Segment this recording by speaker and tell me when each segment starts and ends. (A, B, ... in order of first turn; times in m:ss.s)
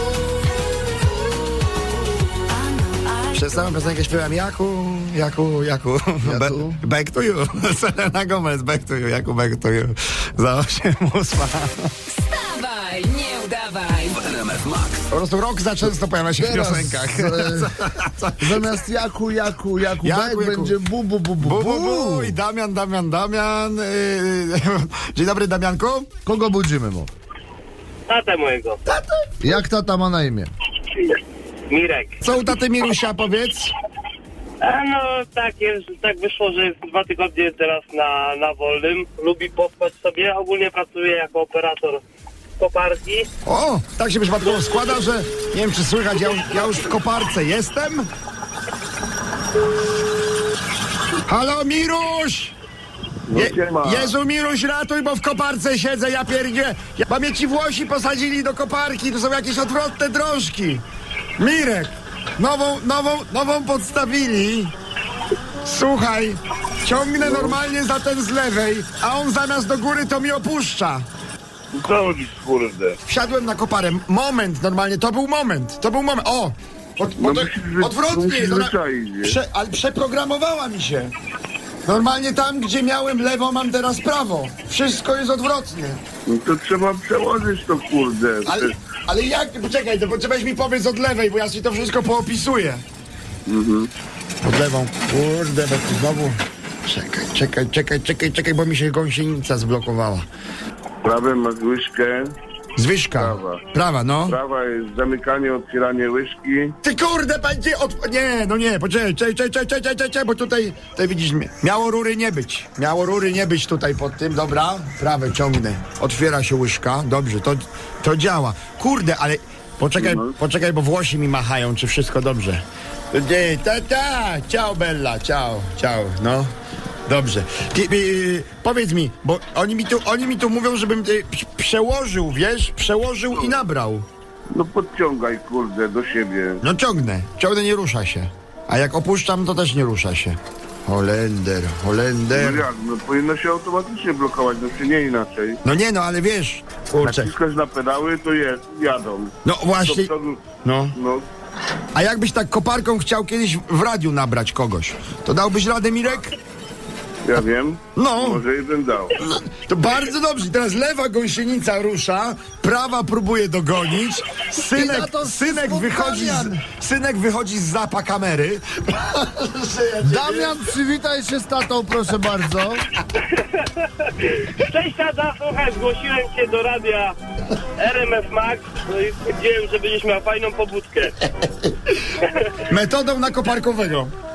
0:02.5-0:03.7 A
0:03.3-0:11.9 B
0:06.2-0:06.8 C
0:12.1-0:15.0 A
0:15.1-0:18.8 B
0:16.4-0:17.7 C
0:18.4-0:22.4 C
0:20.0-0:20.8 B
0:21.4-0:26.1 B
0:26.2-0:27.1 C
0:28.1-0:28.8 D
0:28.9-0:29.5 B
0:29.4-0:30.5 C
0:31.7-0:32.1 D
0:32.2-0:33.7 B
0:34.6-0:42.0 D
0:42.6-0:43.3 D
0:43.4-0:48.1 B
0:51.3-0:52.6 B
0:53.3-0:54.1 E
0:53.3-1:00.8 B
1:01.4-1:04.7 B
1:05.6-1:11.1 B
1:07.2-1:07.6 E
1:11.7-1:13.0 E
1:13.0-1:21.1 B
1:17.2-1:19.4 E
1:21.8-1:26.0 B
1:26.3-1:28.8 E
1:28.4-1:32.8 B
1:33.5-1:33.9 E
1:34.4-1:40.3 B
1:41.0-1:42.3 E
1:42.8-1:44.4 B
1:43.2-1:43.6 E
1:44.3-1:46.7 E
1:46.8-2:06.5 B
2:00.0-2:00.3 E
2:07.1-2:14.1 B
2:13.3-2:13.6 E
2:14.5-2:16.6 E
2:16.6-2:22.7 B
2:22.3-2:25.6 E
2:25.6-2:27.3 B
2:27.0-2:31.3 E
2:29.4-2:30.1 B
2:30.6-2:30.9 B
2:31.9-2:36.3 B
2:37.2-2:39.2 E
2:37.9-2:38.4 B
2:39.2-2:50.7 B
2:44.6-2:46.6 C
2:50.0-2:52.8 C
2:54.6-2:57.1 D
2:57.8-3:01.1 D
3:02.7-3:04.1 B